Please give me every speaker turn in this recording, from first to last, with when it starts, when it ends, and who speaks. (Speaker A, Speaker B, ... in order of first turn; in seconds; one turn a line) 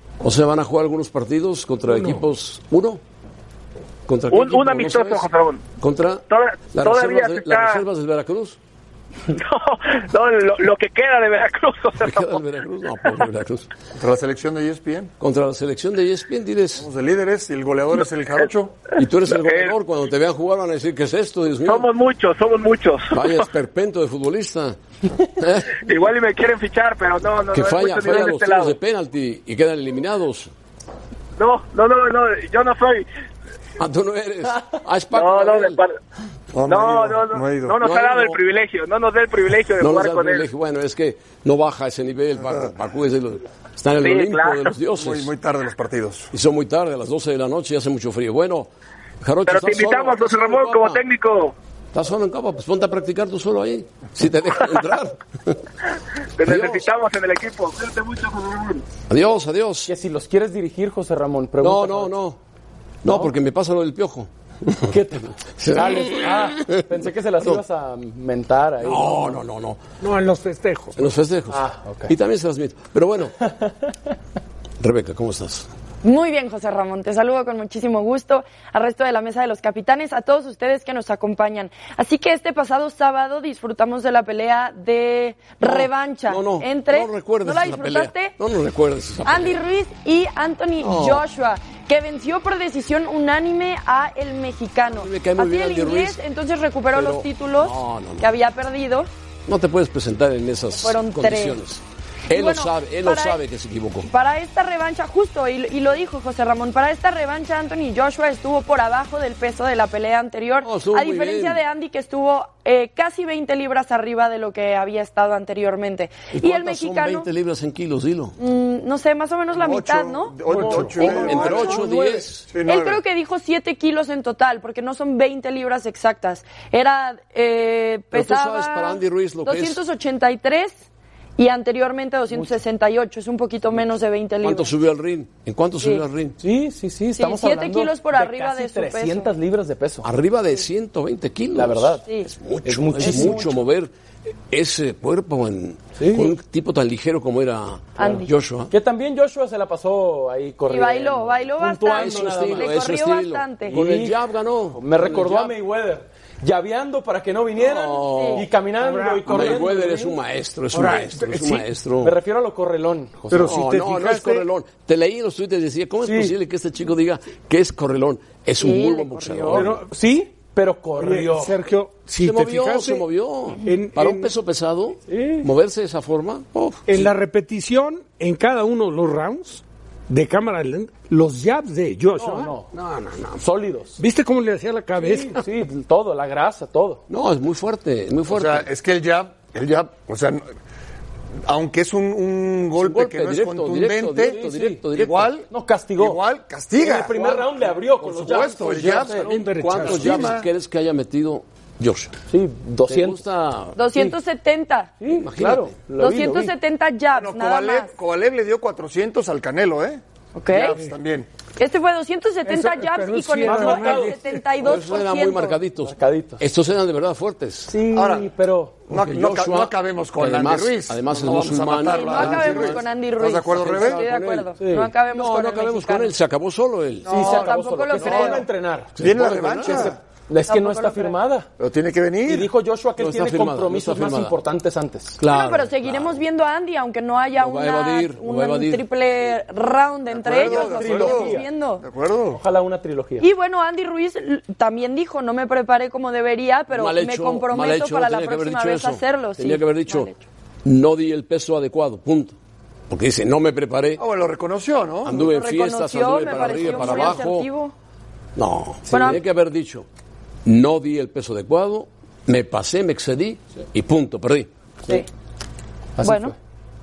Speaker A: 0.2-3.0
Speaker A: 4.1-5.3
Speaker B: 4.3-5.6
Speaker A: 5.8-8.6
Speaker B: 6.3-7.8
Speaker B: 9.3-12.4
Speaker A: 12.0-13.7
Speaker C: 13.9-15.1
Speaker A: 15.2-16.9
Speaker C: 16.8-18.8
Speaker A: 19.0-21.9
Speaker B: 19.2-19.8
Speaker B: 21.6-23.5
Speaker A: 23.1-25.9
Speaker B: 25.8-28.8
Speaker A: 27.5-30.5
Speaker B: 31.4-33.0
Speaker A: 33.8-35.8
Speaker B: 35.1-36.0
Speaker C: 36.5-37.8
Speaker B: 36.6-40.5
Speaker A: 37.8-38.4
Speaker A: 39.8-45.3
Speaker B: 44.0-44.7
Speaker C: 45.0-46.3
Speaker A: 46.3-48.7
Speaker A: 49.2-51.0
Speaker B: 49.5-51.5
Speaker A: 51.9-55.6
Speaker B: 56.4-58.8
Speaker A: 56.5-56.9
Speaker A: 59.1-59.9
Speaker D: 59.9-62.1
Speaker A: 61.6-62.4
Speaker A: 63.0-65.0
Speaker D: 63.0-63.3
Speaker D: 64.8-69.4
Speaker A: 65.6-67.6
Speaker A: 68.8-69.8
Speaker E: 70.0-71.0
Speaker A: 71.0-73.4
Speaker D: 71.5-72.1
Speaker A: 74.8-75.7
Speaker F: 76.0-88.4
Speaker A: 85.6-89.6
Speaker F: 89.2-99.1
Speaker A: 90.8-91.2
Speaker A: 94.9-96.2
Speaker A: 96.9-98.3
Speaker A: 99.5-104.1
Speaker F: 100.8-101.6
Speaker F: 102.3-103.4
Speaker F: 104.0-117.3
Speaker A: 110.6-111.6
Speaker A: 116.3-118.4
Speaker F: 118.4-120.4
Speaker C: 119.5-121.9
Speaker E: 120.5-120.9
Speaker D: 120.9-122.2
Speaker A: 120.9-122.5
Speaker F: 121.0-121.8
Speaker C: 122.5-123.0
Speaker F: 122.6-130.8
Speaker A: 128.1-129.8
Speaker F: 131.4-134.8
Speaker A: 134.4-136.4
Speaker D: 136.4-140.1
Speaker F: 137.1-139.3
Speaker A: 140.0-143.9
Speaker D: 141.5-142.0
Speaker D: 142.6-143.6
Speaker F: 143.0-143.4
Speaker A: 144.5-148.7
Speaker D: 146.0-146.3
Speaker F: 148.0-148.3
Speaker D: 148.0-152.8
Speaker F: 150.7-153.8
Speaker A: 151.9-155.5
Speaker D: 153.7-154.2
Speaker D: 154.7-160.2
Speaker A: 157.6-158.5
Speaker F: 158.0-158.4
Speaker E: 158.8-159.7
Speaker A: 159.2-162.2
Speaker E: 160.7-161.6
Speaker D: 162.0-163.6
Speaker E: 163.3-164.5
Speaker A: 163.4-169.8
Speaker D: 166.0-166.3
Speaker F: 168.6-169.6
Speaker D: 169.5-171.6
Speaker E: 171.0-173.1
Speaker A: 172.2-177.1
Speaker E: 173.6-174.3
Speaker D: 175.1-175.5
Speaker E: 176.9-183.4
Speaker D: 182.2-182.7
Speaker D: 183.4-184.0
Speaker E: 184.0-185.5
Speaker D: 185.0-187.0
Speaker A: 187.1-188.7
Speaker C: 188.3-190.4
Speaker C: 191.5-200.5
Speaker A: 192.8-195.4
Speaker D: 194.3-194.8
Speaker D: 195.5-196.2
Speaker D: 196.8-199.5
Speaker E: 199.1-200.4
Speaker A: 199.6-202.2
Speaker D: 202.3-203.2
Speaker A: 202.9-203.8
Speaker F: 203.8-204.9
Speaker D: 205.0-206.5
Speaker A: 205.1-205.8
Speaker F: 206.0-207.9
Speaker C: 207.1-211.3
Speaker F: 210.3-210.8
Speaker F: 211.6-215.6
Speaker E: 212.5-214.4
Speaker D: 213.4-214.2
Speaker A: 214.6-217.7
Speaker D: 215.8-216.4
Speaker D: 217.7-218.8
Speaker C: 217.9-218.3
Speaker C: 218.9-224.0
Speaker A: 218.9-222.8
Speaker F: 221.8-226.1
Speaker A: 223.4-224.5
Speaker D: 224.6-224.9
Speaker A: 225.1-227.1
Speaker C: 227.0-228.5
Speaker D: 227.1-231.5
Speaker F: 227.1-228.4
Speaker A: 229.0-229.9
Speaker C: 229.0-230.0
Speaker F: 230.5-231.2
Speaker C: 231.6-232.5
Speaker D: 232.2-235.2
Speaker A: 233.0-234.4
Speaker A: 235.2-236.2
Speaker F: 235.3-241.8
Speaker A: 237.3-238.8
Speaker C: 240.1-242.4
Speaker D: 240.3-241.5
Speaker D: 242.3-243.3
Speaker F: 243.2-250.2
Speaker A: 246.7-250.1
Speaker A: 250.6-252.3
Speaker A: 252.9-254.0
Speaker C: 254.0-255.2
Speaker A: 255.0-257.5
Speaker F: 255.2-257.7
Speaker C: 256.6-257.1
Speaker A: 258.4-259.9
Speaker D: 258.9-259.2
Speaker F: 258.9-259.2
Speaker A: 260.4-264.5
Speaker D: 266.0-266.4
Speaker F: 266.0-266.3